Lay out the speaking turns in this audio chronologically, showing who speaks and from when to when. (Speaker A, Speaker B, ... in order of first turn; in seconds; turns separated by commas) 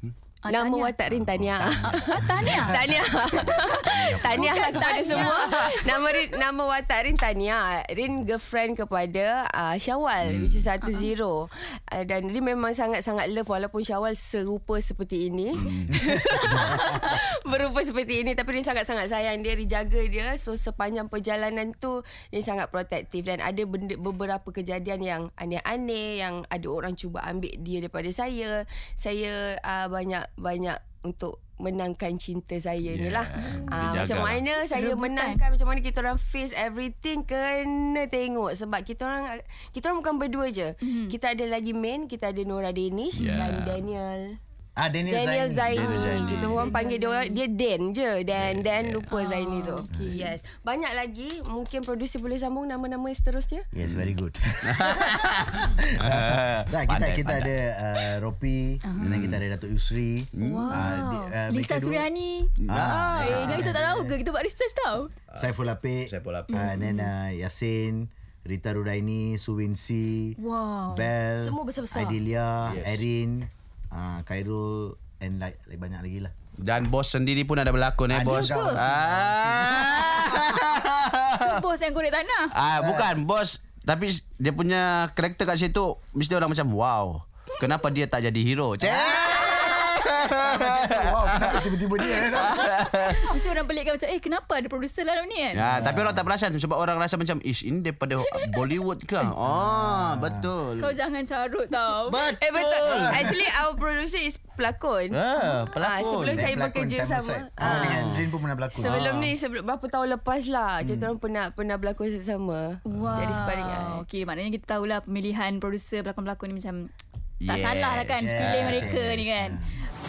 Speaker A: 0.4-0.9, Speaker B: 0.5-44.4, Speaker C: 1.6-2.9, Speaker A: 2.1-2.8, Speaker D: 2.4-5.9, Speaker A: 3.6-6.0, Speaker D: 10.2-10.7, Speaker A: 10.8-11.1, Speaker D: 15.6-15.9, Speaker C: 15.9-17.1, Speaker D: 32.9-34.4, Speaker A: 33.4-33.7, Speaker A: 34.7-35.4, Speaker A: 40.8-41.1, Speaker D: 43.1-43.8, Speaker C: 44.8-45.9, Speaker B: 45.0-53.7, Speaker D: 45.7-46.6, Speaker A: 45.8-47.4, Speaker D: 48.3-49.0, Speaker A: 49.1-50.3, Speaker C: 49.9-50.2, Speaker C: 53.7-62.0, Speaker D: 54.6-57.5, Speaker A: 58.8-59.1, Speaker D: 59.0-59.4, Speaker D: 60.3-60.9, Speaker A: 60.4-62.5, Speaker D: 62.6-63.7, Speaker C: 62.7-64.2, Speaker A: 63.2-65.1, Speaker C: 65.4-70.4, Speaker D: 66.1-66.6, Speaker A: 66.5-67.1, Speaker A: 70.4-71.1, Speaker C: 70.9-76.3, Speaker B: 71.4-72.2, Speaker D: 72.7-73.0, Speaker D: 76.6-81.6, Speaker C: 78.1-80.7, Speaker A: 78.3-78.8, Speaker A: 81.4-82.5, Speaker D: 82.5-93.3, Speaker C: 82.7-83.1, Speaker C: 88.8-92.9, Speaker A: 93.0-95.6, Speaker D: 95.5-100.9, Speaker C: 95.7-96.2, Speaker C: 99.4-100.5, Speaker A: 100.8-102.3, Speaker D: 102.1-103.4, Speaker B: 102.4-105.2, Speaker C: 102.9-103.2, Speaker D: 105.1-106.5, Speaker B: 105.7-108.0, Speaker C: 106.3-109.1, Speaker D: 107.6-108.3, Speaker B: 108.7-114.0, Speaker D: 108.8-109.3, Speaker C: 110.8-111.1, Speaker A: 112.8-116.9, Speaker D: 117.4-119.0, Speaker A: 117.5-119.6, Speaker C: 118.2-119.8